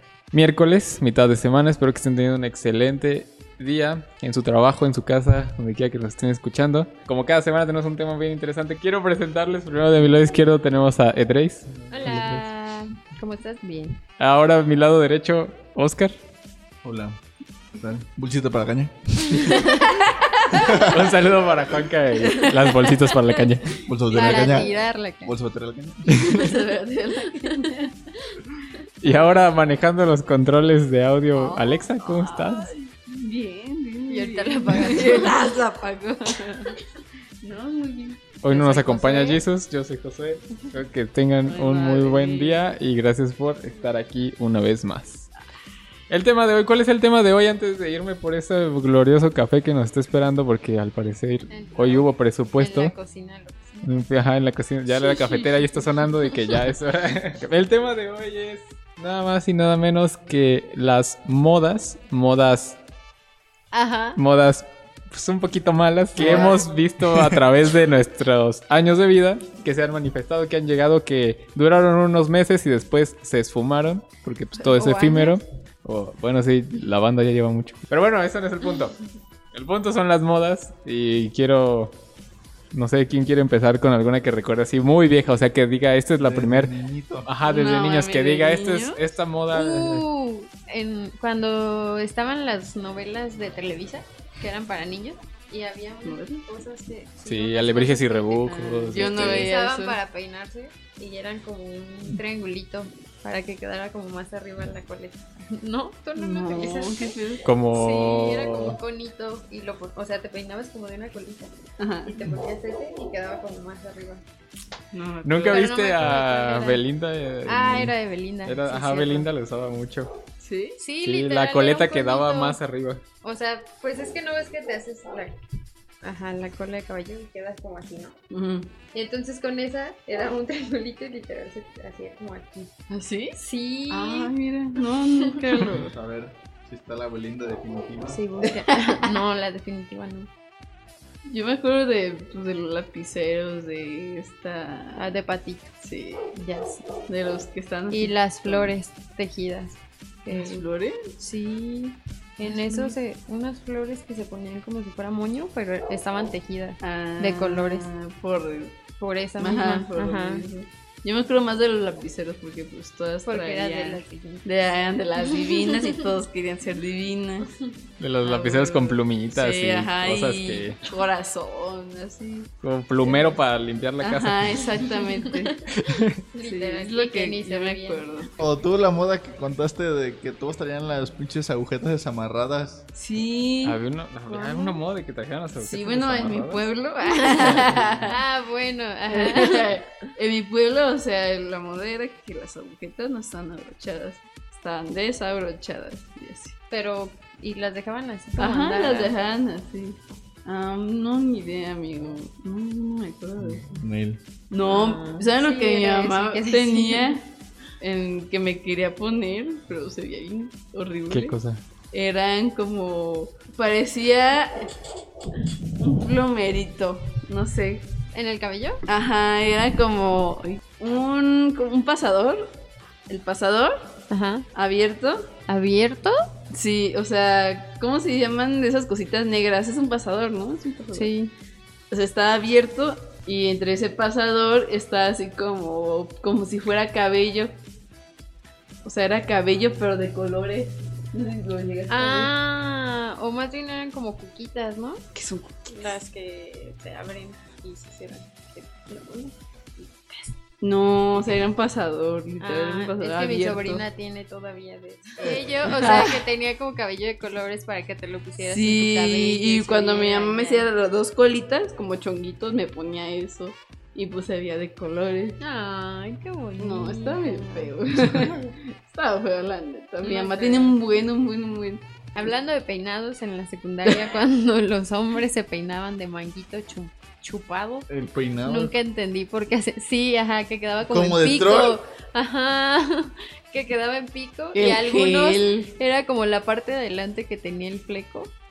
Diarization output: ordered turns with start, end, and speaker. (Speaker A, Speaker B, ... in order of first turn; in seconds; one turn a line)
Speaker A: 0.3-12.4
Speaker B: 11.9-14.0
Speaker A: 14.2-16.2
Speaker C: 16.8-17.2
Speaker C: 17.7-19.6
Speaker D: 19.3-20.9
Speaker C: 20.5-21.6
Speaker A: 20.6-23.8
Speaker D: 22.2-23.1
Speaker C: 23.8-24.7
Speaker B: 24.1-25.3
Speaker C: 25.2-26.4
Speaker D: 26.1-27.9
Speaker B: 27.4-27.7
Speaker A: 29.0-32.7
Speaker D: 31.3-36.8
Speaker B: 34.1-35.4
Speaker D: 37.4-38.2
Speaker A: 38.4-45.3
Speaker B: 38.5-39.4
Speaker D: 41.5-42.7
Speaker A: 46.1-52.9
Speaker B: 51.5-53.9
Speaker A: 53.8-62.8
Speaker D: 54.9-56.4
Speaker B: 63.7-64.2
Speaker A: 64.2-79.0
Speaker C: 66.2-67.4
Speaker B: 66.2-66.6
Speaker B: 74.6-75.4
Speaker A: 79.5-81.9
Speaker A: 82.7-86.7
Speaker C: 86.2-87.3
Speaker A: 87.2-90.0
Speaker D: 87.4-89.0
Speaker B: 89.5-107.1
Speaker D: 96.0-96.4
Speaker A: 97.2-99.5
Speaker D: 98.4-100.0
Speaker D: 106.2-107.4
Speaker A: 107.4-108.8
Speaker B: 107.7-111.5
Speaker D: 111.8-112.1
Speaker B: 112.0-114.2
Speaker D: 114.9-115.7
Speaker A: 115.2-117.9
Speaker B: 115.5-116.8
Speaker B: 117.5-119.3
Speaker A: 118.4-120.2
Speaker D: 120.4-120.8
Speaker B: 120.8-122.6
Speaker A: 121.0-123.0
Speaker B: 123.2-125.4
Speaker B: 126.0-128.1
Speaker D: 128.3-128.7
Speaker B: 128.9-132.7
Speaker D: 132.9-133.4
Speaker B: 133.3-134.3
Speaker D: 133.9-135.9
Speaker B: 135.2-135.5
Speaker C: 135.7-138.2
Speaker B: 138.1-140.3
Speaker D: 138.4-139.1
Speaker D: 141.2-145.1
Speaker B: 145.0-145.7
Speaker D: 145.8-146.3
Speaker B: 146.3-146.8
Speaker D: 147.1-148.7
Speaker B: 147.9-150.6
Speaker D: 150.3-150.9
Speaker B: 151.2-157.9
Speaker D: 152.6-152.9
Speaker D: 156.8-158.7
Speaker B: 159.0-160.4
Speaker D: 159.4-167.5
Speaker B: 163.2-164.5
Speaker A: 168.0-170.8
Speaker D: 168.2-172.5
Speaker A: 172.6-174.7
Speaker D: 173.0-173.3
Speaker D: 174.0-175.6
Speaker A: 175.7-176.2
Speaker B: 176.3-178.2
Speaker D: 176.4-178.3
Speaker C: 178.4-182.8
Speaker D: 182.9-183.8
Speaker A: 183.6-186.7
Speaker B: 184.3-184.8
Speaker D: 185.6-188.2
Speaker A: 187.3-188.0
Speaker C: 187.6-188.1
Speaker B: 188.1-189.7
Speaker D: 189.1-196.6
Speaker B: 196.7-199.1
Speaker D: 198.4-203.7
Speaker C: 203.4-204.2
Speaker D: 204.5-207.2
Speaker B: 204.6-207.2
Speaker D: 207.8-211.4
Speaker A: 211.1-211.6
Speaker D: 211.9-214.7
Speaker D: 215.8-217.9
Speaker B: 218.1-218.8
Speaker D: 218.8-222.5
Speaker D: 223.1-223.9
Speaker B: 224.1-224.5
Speaker D: 224.5-225.3
Speaker B: 225.5-226.3
Speaker D: 226.5-231.1
Speaker B: 230.9-231.3
Speaker D: 231.9-237.5
Speaker D: 238.8-242.3
Speaker B: 241.9-245.0
Speaker D: 245.1-245.7
Speaker B: 245.7-250.3
Speaker D: 250.6-253.8
Speaker B: 252.4-260.7
Speaker C: 255.2-255.6
Speaker D: 255.6-256.2
Speaker D: 258.4-265.4
Speaker B: 265.4-267.7
Speaker D: 266.6-271.8
Speaker B: 270.0-270.8
Speaker B: 272.1-277.9
Speaker D: 273.9-274.1
Speaker C: 277.9-278.7
Speaker B: 278.4-288.3
Speaker C: 280.9-281.8
Speaker D: 284.5-285.7